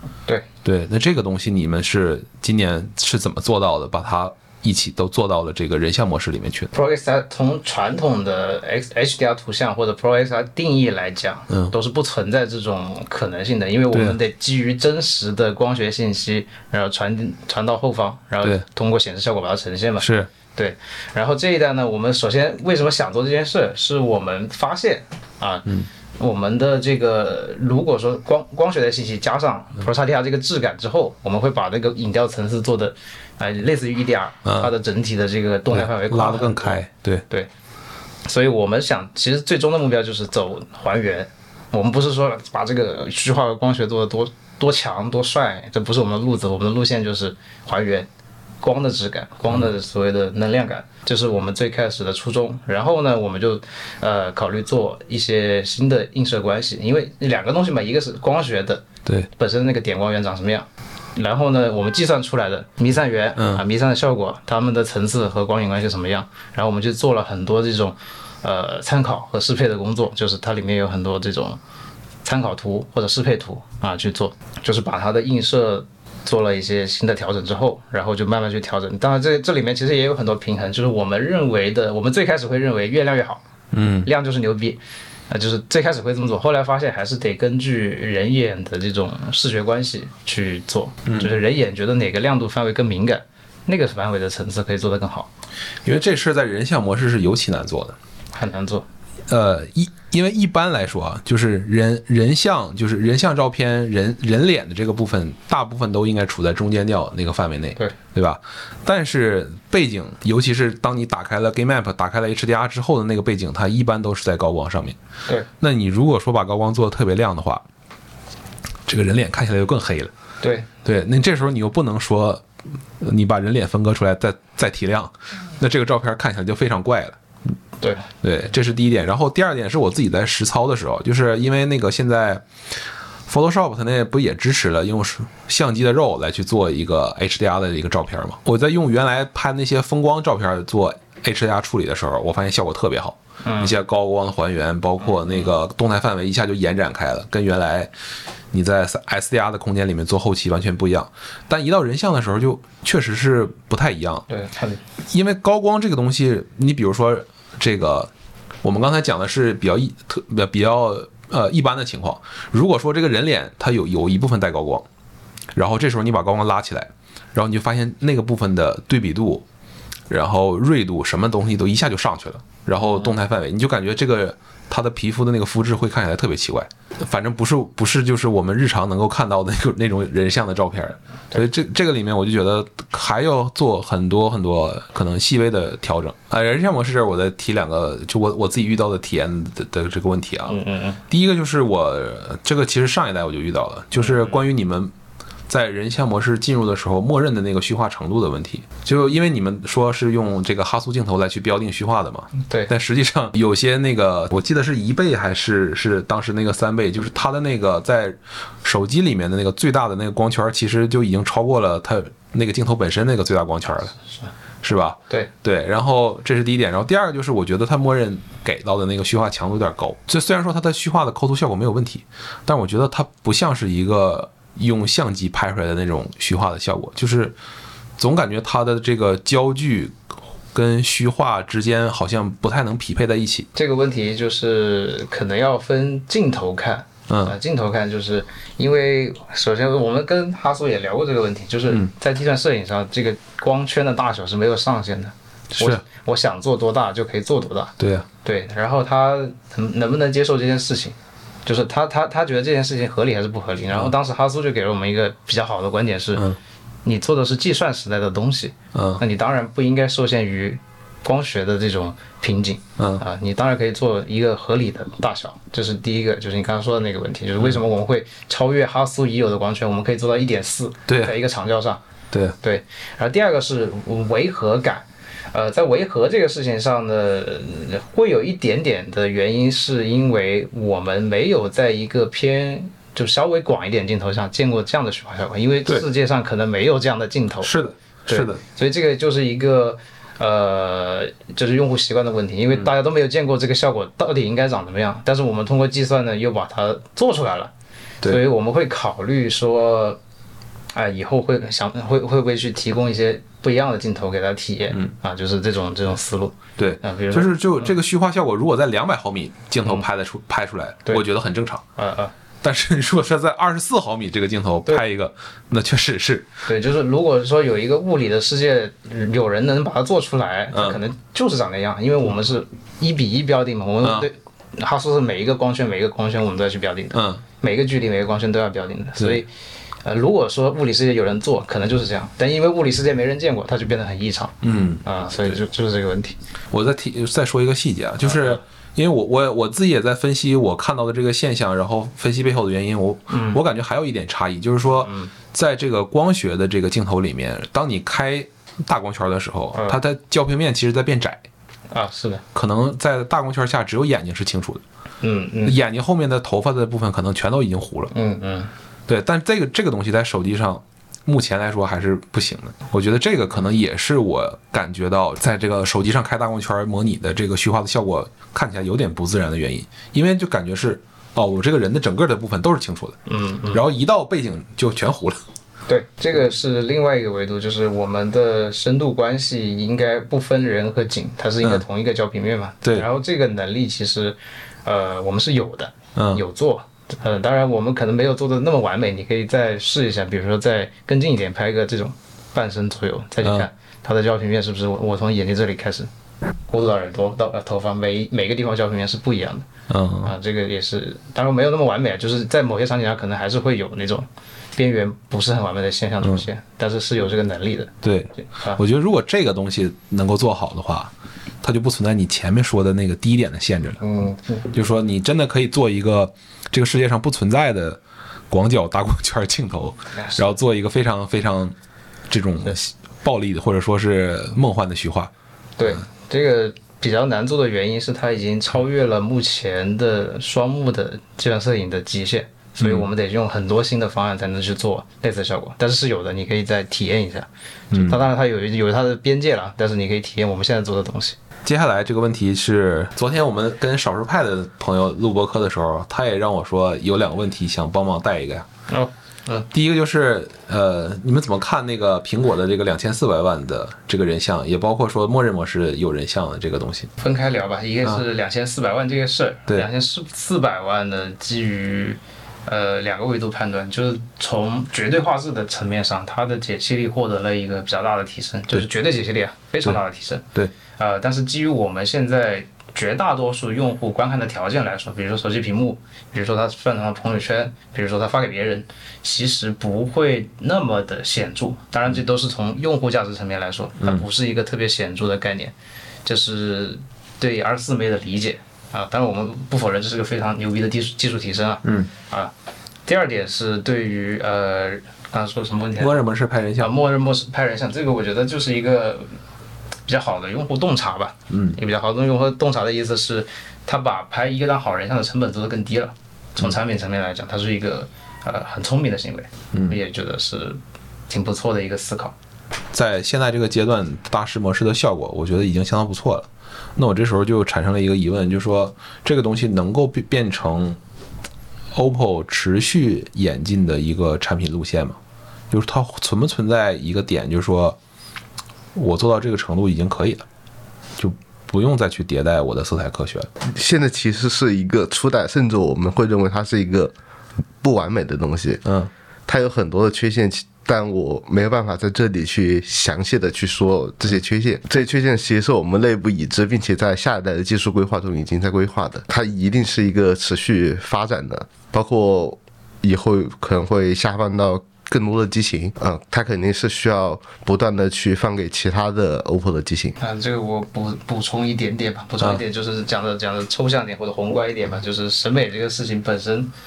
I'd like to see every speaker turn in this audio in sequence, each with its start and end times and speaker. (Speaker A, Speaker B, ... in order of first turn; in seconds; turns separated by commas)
Speaker A: 0.6-6.7, Speaker B: 6.7-25.7, Speaker A: 13.9-14.2, Speaker A: 20.0-20.3, Speaker B: 26.2-36.8, Speaker A: 34.4-34.7, Speaker A: 35.7-37.2, Speaker B: 38.2-48.1, Speaker B: 48.6-58.8, Speaker B: 59.4-71.6, Speaker A: 63.4-63.6, Speaker B: 72.2-83.4, Speaker A: 83.7-84.1, Speaker B: 84.0-84.8, Speaker B: 85.3-95.3, Speaker A: 91.0-91.3, Speaker A: 95.8-98.0, Speaker B: 98.3-98.8, Speaker A: 99.3-115.0, Speaker A: 115.6-117.6, Speaker A: 118.8-120.1, Speaker B: 120.4-120.7, Speaker A: 120.8-122.4, Speaker A: 123.0-127.2, Speaker B: 127.8-128.1, Speaker A: 128.2-132.4, Speaker A: 133.3-147.9, Speaker B: 143.4-143.7, Speaker A: 148.5-154.2, Speaker B: 154.3-154.8, Speaker A: 155.1-158.1, Speaker A: 158.6-164.8, Speaker A: 165.5-169.4, Speaker A: 170.1-190.6, Speaker B: 172.8-173.1, Speaker B: 190.5-191.0, Speaker A: 191.1-194.9, Speaker B: 194.0-194.3, Speaker A: 195.5-213.9, Speaker A: 214.6-227.3, Speaker A: 228.0-229.9, Speaker A: 230.5-233.5, Speaker B: 233.5-256.2, Speaker A: 237.1-237.4, Speaker A: 245.5-245.8, Speaker A: 247.8-248.1, Speaker B: 256.8-271.8, Speaker A: 258.7-259.0, Speaker A: 262.8-263.0, Speaker A: 270.9-271.1, Speaker B: 272.4-287.5, Speaker A: 287.4-288.4, Speaker B: 288.1-297.5, Speaker B: 298.0-300.0, Speaker B: 300.7-307.7, Speaker A: 306.6-311.6, Speaker B: 311.8-312.1, Speaker A: 312.4-316.3, Speaker B: 316.5-329.3, Speaker A: 320.5-320.8, Speaker A: 323.8-324.1, Speaker A: 326.9-327.2, Speaker B: 329.8-336.1, Speaker A: 334.4-335.4, Speaker A: 336.5-351.2, Speaker B: 338.0-338.4, Speaker B: 343.1-343.4, Speaker B: 344.8-345.1, Speaker B: 351.7-352.2, Speaker A: 352.3-354.6, Speaker B: 355.0-355.6, Speaker A: 355.4-357.9, Speaker B: 357.9-358.5, Speaker A: 358.9-373.0, Speaker B: 373.1-373.6, Speaker A: 373.5-375.2, Speaker B: 375.7-395.9, Speaker A: 385.9-386.2, Speaker B: 396.5-399.5, Speaker A: 399.7-400.1, Speaker B: 400.0-407.7, Speaker A: 406.0-406.3, Speaker A: 407.8-410.9, Speaker B: 408.3-408.6, Speaker A: 411.4-413.8, Speaker B: 413.8-414.4, Speaker A: 414.5-417.8, Speaker A: 418.3-421.5, Speaker B: 419.9-420.3, Speaker A: 422.1-425.1, Speaker B: 425.6-441.2, Speaker A: 432.6-432.9, Speaker A: 437.7-438.0, Speaker A: 441.4-448.4, Speaker B: 448.7-449.5, Speaker A: 449.5-456.9, Speaker B: 457.0-485.5, Speaker A: 483.8-484.0, Speaker B: 486.0-492.3, Speaker A: 491.6-491.9, Speaker B: 492.9-495.9, Speaker A: 495.8-496.7, Speaker B: 496.6-499.1, Speaker B: 499.9-512.1, Speaker A: 501.3-501.6, Speaker A: 509.5-509.8, Speaker A: 512.7-520.8, Speaker A: 521.7-525.0, Speaker A: 525.5-527.8, Speaker A: 528.7-530.2, Speaker A: 531.0-533.3, Speaker C: 533.5-536.9, Speaker C: 537.6-538.6, Speaker A: 538.6-538.9, Speaker C: 539.3-560.0, Speaker B: 560.0-566.5